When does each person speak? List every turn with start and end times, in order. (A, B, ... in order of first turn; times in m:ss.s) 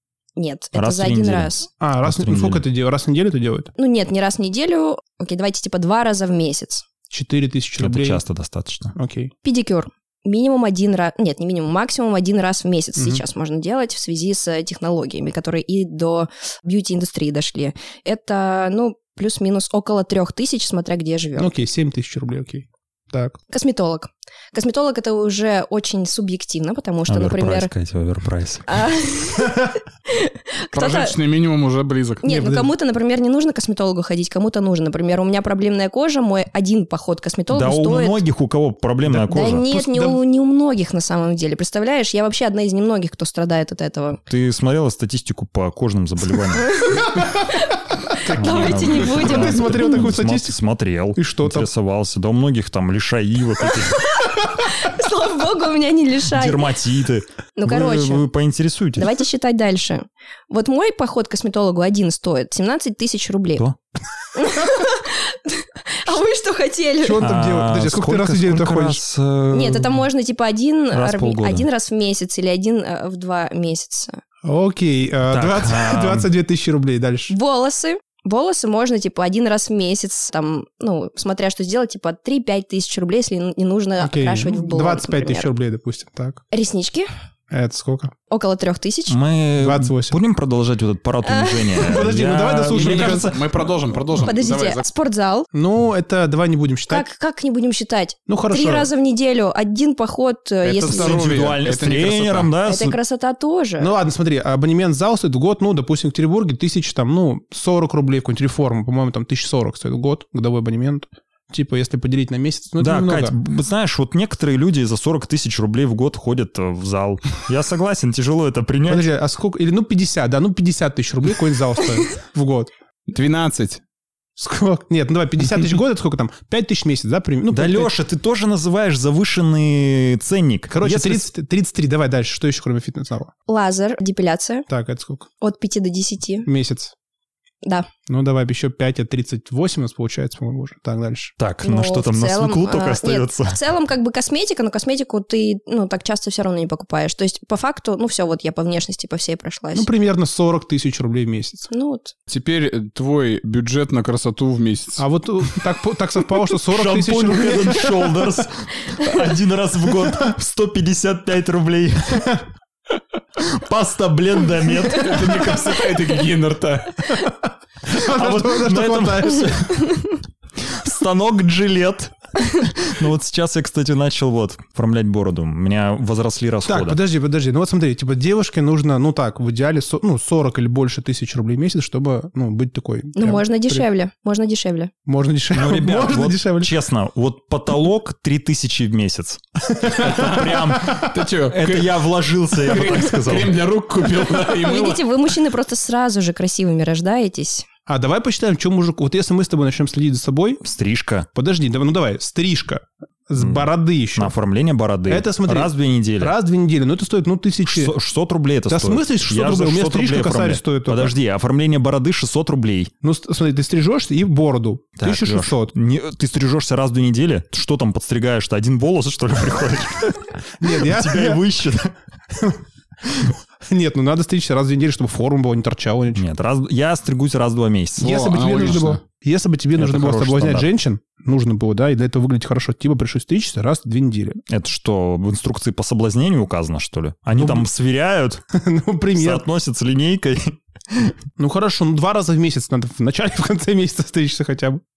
0:00.4-0:01.7 A
0:00.7-0:02.6 B
0:01.8-0:03.7 C
0:03.8-0:06.8 A
0:07.1-0:08.2 C
0:07.8-0:08.9 B
0:08.9-0:09.3 C
0:09.4-0:21.5 A
0:13.0-0:13.2 C
0:21.4-0:23.4 C
0:23.5-0:27.7 A
0:27.1-0:28.8 B
0:28.7-0:31.2 A
0:30.7-0:32.3 D
0:32.2-0:38.2 A
0:32.2-0:32.7 C
0:37.5-0:39.6 B
0:39.1-0:44.2 A
0:39.2-0:40.2 C
0:44.3-0:46.7 B
0:46.5-0:50.0 A
0:47.1-0:47.6 C
0:48.2-0:50.6 C
0:48.3-0:54.0 B
0:51.1-0:51.7 C
0:53.9-0:56.7 A
0:56.3-0:59.1 B
0:57.6-0:58.2 A
0:59.0-1:03.6 A
1:04.3-1:07.3 A
1:07.0-1:09.0 C
1:07.2-1:10.0 B
1:09.5-1:14.2 A
1:10.9-1:11.6 B
1:14.4-1:17.3 C
1:15.3-1:16.3 B
1:17.3-1:25.5 A
1:24.0-1:26.4 C
1:26.5-1:27.1 A
1:27.5-1:28.1 C
1:28.3-1:29.2 A
1:29.1-1:33.4 B
1:29.6-1:30.2 C
1:31.2-1:32.0 A
1:31.8-1:33.7 C
1:32.7-1:34.9 D
1:34.2-1:35.5 A
1:35.5-1:37.1 C
1:36.9-1:41.2 A
1:38.3-1:38.9 C
1:40.7-1:41.5 C
1:40.7-1:42.5 D
1:40.9-1:43.0 B
1:42.6-1:43.9 A
1:43.8-1:53.4 C
1:52.8-1:59.0 B
1:58.8-2:02.7 C
2:03.1-2:03.8 D
2:04.4-2:07.9 C
2:07.5-2:11.3 B
2:10.7-2:13.3 C
2:13.5-2:14.6 A
2:14.7-2:15.3 C
2:15.4-2:16.5 A
2:16.4-2:16.9 C
2:17.6-2:17.9 A
2:18.1-2:21.3 C
2:21.4-2:23.6 B
2:21.6-2:29.9 A
2:29.7-2:31.7 C
2:31.7-2:32.1 A
2:32.3-2:35.0 D
2:35.0-2:38.1 C
2:36.7-2:42.4 B
2:43.4-2:45.4 B
2:44.9-2:47.2 D
2:47.1-2:49.8 C
2:48.0-2:50.0 B
2:50.6-2:57.0 B
2:56.6-3:03.8 C
3:03.2-3:04.9 A
3:05.0-3:06.7 C
3:05.5-3:13.6 B
3:09.7-3:10.2 C
3:10.0-3:15.1 D
3:14.4-3:17.6 A
3:17.9-3:20.6 C
3:20.6-3:21.3 B
3:21.3-3:24.3 C
3:23.4-3:26.3 B
3:25.1-3:27.9 C
3:27.6-3:32.9 B
3:28.7-3:31.1 C
3:33.0-3:35.7 C
3:35.0-3:41.9 B
3:40.6-3:41.4 C
3:42.3-3:42.6 C
3:43.2-3:46.2 C
3:46.1-3:48.2 B
3:48.0-3:54.4 C
3:48.0-3:49.0 D
3:49.8-3:50.7 B
3:54.5-3:58.4 B
3:57.3-3:57.7 C
3:58.5-3:59.4 C
3:59.2-4:01.1 B
4:01.4-4:04.8 C